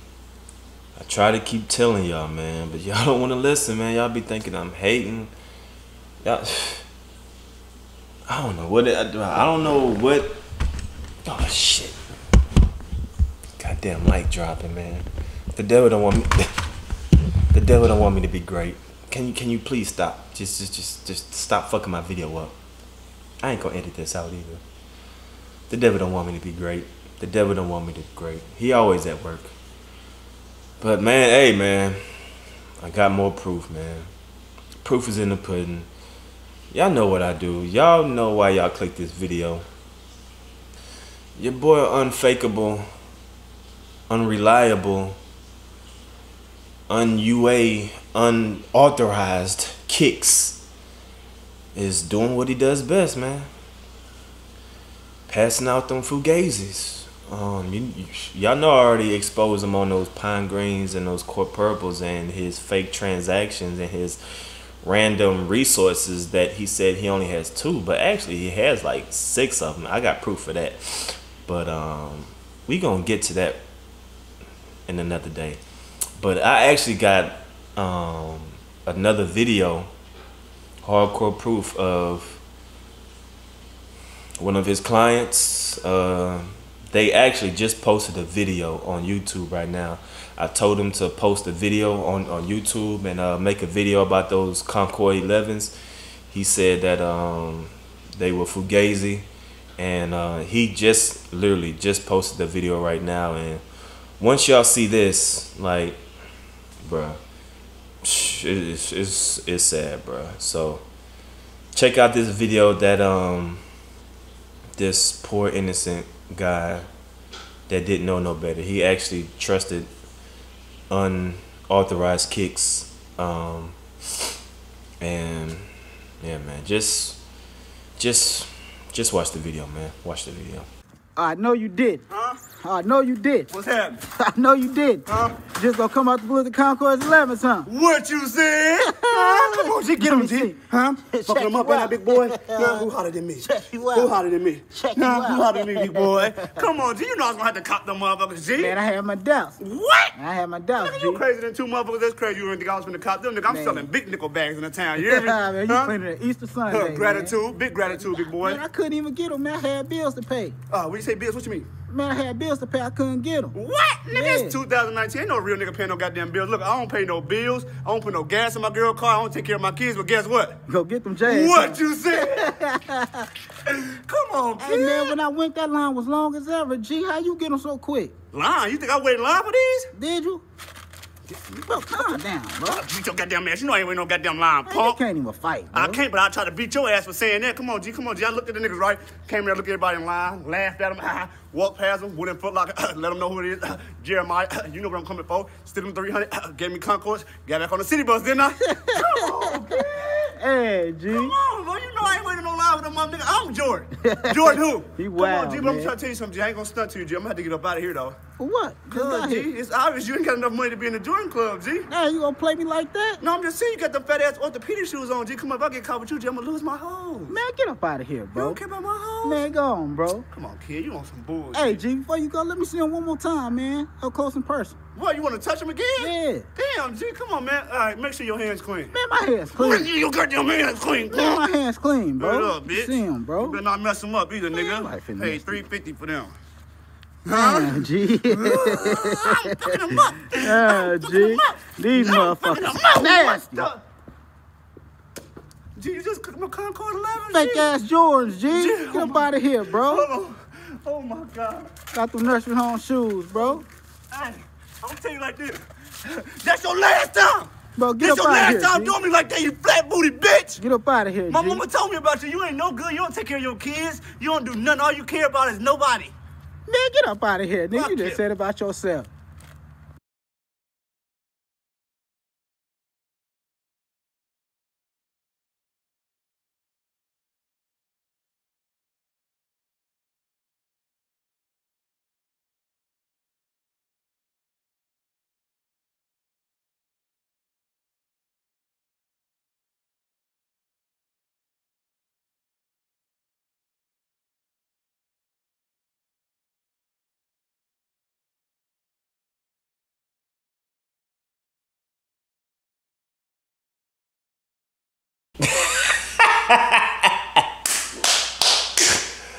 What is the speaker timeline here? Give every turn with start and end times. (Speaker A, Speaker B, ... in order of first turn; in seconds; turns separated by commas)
Speaker A: 0.9-5.3, Speaker A: 6.2-6.8, Speaker A: 8.3-10.3, Speaker A: 11.2-12.0, Speaker A: 13.6-16.5, Speaker A: 17.5-22.5, Speaker A: 23.4-24.6, Speaker A: 25.7-29.5, Speaker A: 30.8-32.0, Speaker A: 32.8-34.1, Speaker A: 34.8-35.9, Speaker A: 36.7-39.6, Speaker A: 41.4-42.9, Speaker A: 44.1-45.2, Speaker A: 46.9-50.6, Speaker A: 51.7-53.5, Speaker A: 55.3-64.2, Speaker A: 64.8-73.6, Speaker A: 74.9-75.6, Speaker A: 76.2-79.9, Speaker A: 80.8-82.4, Speaker A: 84.4-95.7, Speaker A: 96.3-99.3, Speaker A: 99.8-103.6, Speaker A: 104.2-106.0, Speaker A: 106.8-107.2, Speaker A: 108.0-110.8, Speaker A: 111.7-113.6, Speaker A: 114.8-116.9, Speaker A: 117.7-119.9, Speaker A: 120.9-123.8, Speaker A: 125.0-125.7, Speaker A: 126.2-127.2, Speaker A: 128.0-130.7, Speaker B: 131.2-132.0, Speaker C: 132.1-132.4, Speaker B: 132.6-133.5, Speaker C: 133.5-134.0, Speaker B: 134.1-137.7, Speaker C: 135.1-135.4, Speaker C: 137.7-148.8, Speaker B: 138.8-140.6, Speaker B: 141.1-142.9, Speaker B: 143.4-144.1, Speaker B: 144.7-146.5, Speaker B: 148.6-149.6, Speaker C: 149.6-150.1, Speaker B: 150.1-151.2, Speaker C: 150.8-155.9, Speaker B: 153.5-153.9, Speaker B: 155.0-157.3, Speaker C: 156.7-158.6, Speaker B: 157.9-160.6, Speaker C: 160.7-161.7, Speaker B: 161.9-163.5, Speaker C: 163.5-170.6, Speaker B: 164.1-164.6, Speaker B: 170.7-173.3, Speaker C: 171.2-172.5, Speaker C: 173.6-175.1, Speaker B: 174.6-178.1, Speaker C: 178.3-179.9, Speaker B: 179.9-180.4, Speaker C: 181.3-185.0, Speaker B: 181.7-182.8, Speaker B: 184.7-186.0, Speaker C: 185.7-200.3, Speaker B: 198.6-199.8, Speaker B: 200.3-201.3, Speaker C: 201.1-208.2, Speaker B: 204.0-205.9, Speaker B: 208.4-209.5, Speaker C: 208.9-211.9, Speaker B: 211.9-213.2, Speaker C: 213.2-217.3, Speaker B: 217.3-218.6, Speaker C: 218.3-219.5, Speaker B: 219.2-220.2, Speaker C: 220.3-221.8, Speaker B: 221.5-224.8, Speaker C: 224.9-228.9, Speaker B: 226.0-226.5, Speaker B: 228.9-229.9, Speaker C: 229.6-231.4, Speaker B: 231.1-233.6, Speaker C: 232.2-236.3, Speaker B: 234.5-235.7, Speaker C: 237.2-243.8, Speaker B: 237.3-243.7, Speaker C: 245.8-247.7, Speaker B: 247.3-250.1, Speaker C: 248.5-251.7, Speaker B: 251.9-253.6, Speaker C: 253.3-260.6, Speaker B: 257.8-258.9, Speaker B: 260.6-261.6, Speaker C: 261.3-266.1, Speaker B: 266.7-269.1, Speaker C: 267.7-268.2, Speaker A: 305.5-307.4